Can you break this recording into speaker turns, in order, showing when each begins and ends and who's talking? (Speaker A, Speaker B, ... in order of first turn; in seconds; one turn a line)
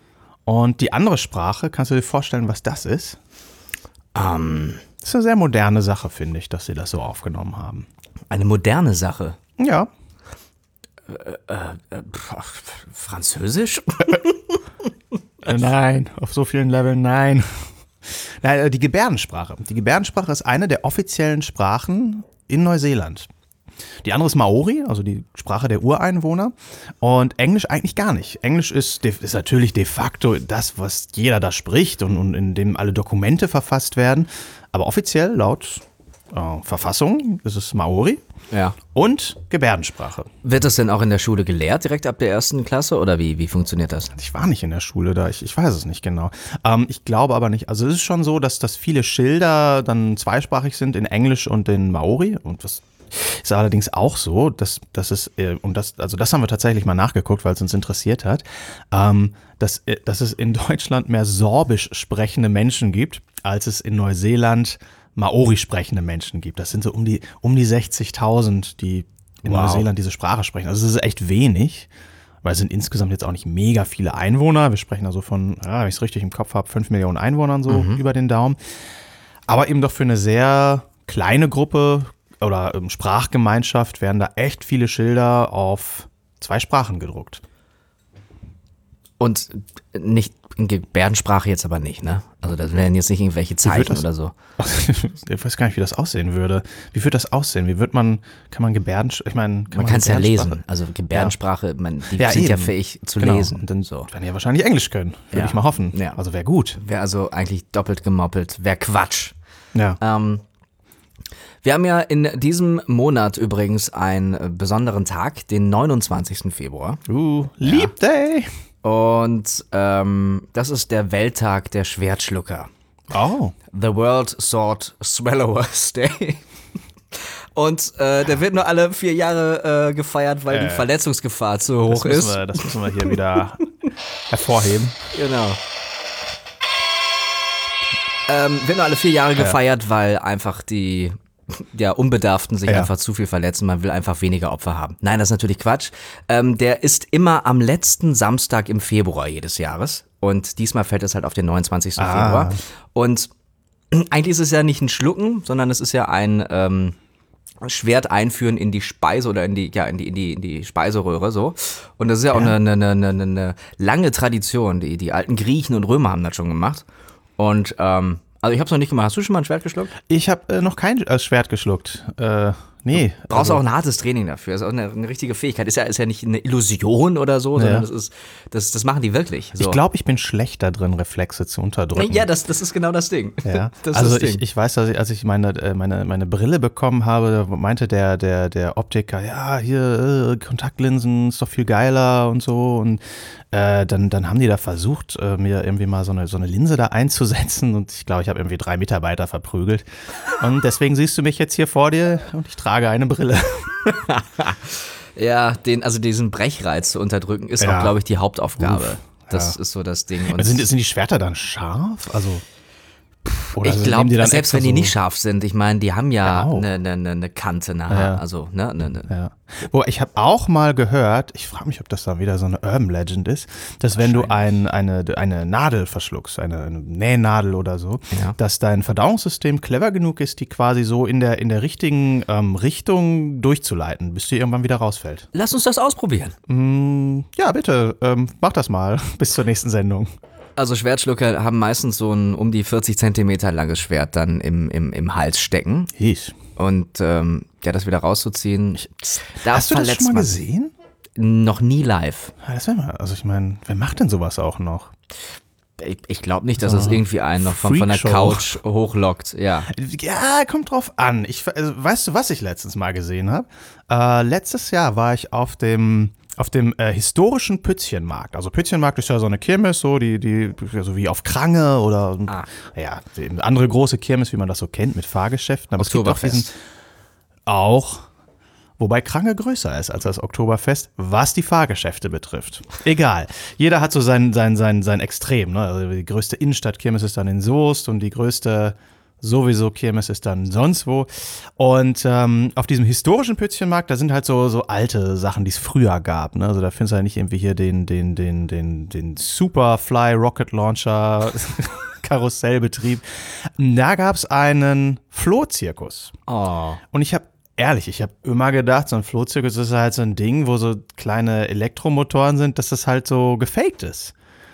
Speaker A: 0.5-3.2
Speaker B: 4.1-4.8
Speaker A: 5.0-7.9
Speaker B: 8.3-9.4
Speaker A: 9.6-9.9
Speaker B: 11.1-14.6
Speaker A: 15.4-17.5
Speaker A: 18.1-23.3
Speaker A: 24.0-38.2
Speaker B: 38.5-38.8
Speaker A: 38.9-40.3
Speaker B: 40.4-44.1
Speaker A: 44.1-71.9
Speaker B: 69.4-69.9
Speaker A: 72.4-78.6
Speaker B: 77.7-78.0
Speaker A: 79.5-87.4
Speaker B: 89.2-94.3
Speaker A: 93.6-94.0
Speaker A: 94.6-100.6
Speaker B: 99.7-104.1
Speaker A: 102.1-106.8
Speaker B: 105.3-106.2
Speaker B: 106.8-109.3
Speaker A: 109.7-110.0
Speaker B: 110.0-110.4
Speaker B: 111.6-117.0
Speaker A: 117.1-118.5
Speaker B: 117.6-117.9
Speaker B: 118.8-122.7
Speaker A: 123.1-123.5
Speaker B: 123.7-126.4
Speaker B: 127.1-133.2
Speaker A: 130.5-130.9
Speaker A: 131.8-133.7
Speaker A: 134.3-135.0
Speaker B: 135.1-135.6
Speaker B: 138.3-153.3
Speaker A: 152.0-152.6
Speaker B: 153.9-156.9
Speaker B: 157.6-166.8
Speaker B: 167.4-169.9
Speaker A: 170.1-173.6
Speaker B: 173.3-179.8
Speaker A: 177.6-177.9
Speaker A: 179.6-182.3
Speaker B: 181.9-184.4
Speaker A: 183.4-203.9
Speaker B: 203.9-210.7
Speaker A: 207.6-208.0
Speaker A: 208.6-209.6
Speaker A: 210.3-212.4
Speaker A: 213.2-214.9
Speaker B: 213.6-219.1
Speaker A: 216.2-216.7
Speaker A: 217.9-218.2
Speaker A: 219.1-235.3
Speaker B: 223.9-224.5
Speaker B: 228.1-228.4
Speaker B: 235.3-236.3
Speaker A: 236.5-240.1
Speaker B: 240.6-245.9
Speaker A: 245.9-246.3
Speaker B: 246.6-250.4
Speaker A: 249.4-250.7
Speaker B: 251.2-252.3
Speaker A: 252.4-254.9
Speaker B: 255.8-259.7
Speaker A: 256.6-258.6
Speaker A: 259.7-276.5
Speaker B: 275.8-276.5
Speaker A: 277.4-278.1
Speaker A: 278.8-306.1
Speaker B: 306.3-306.8
Speaker A: 306.9-314.1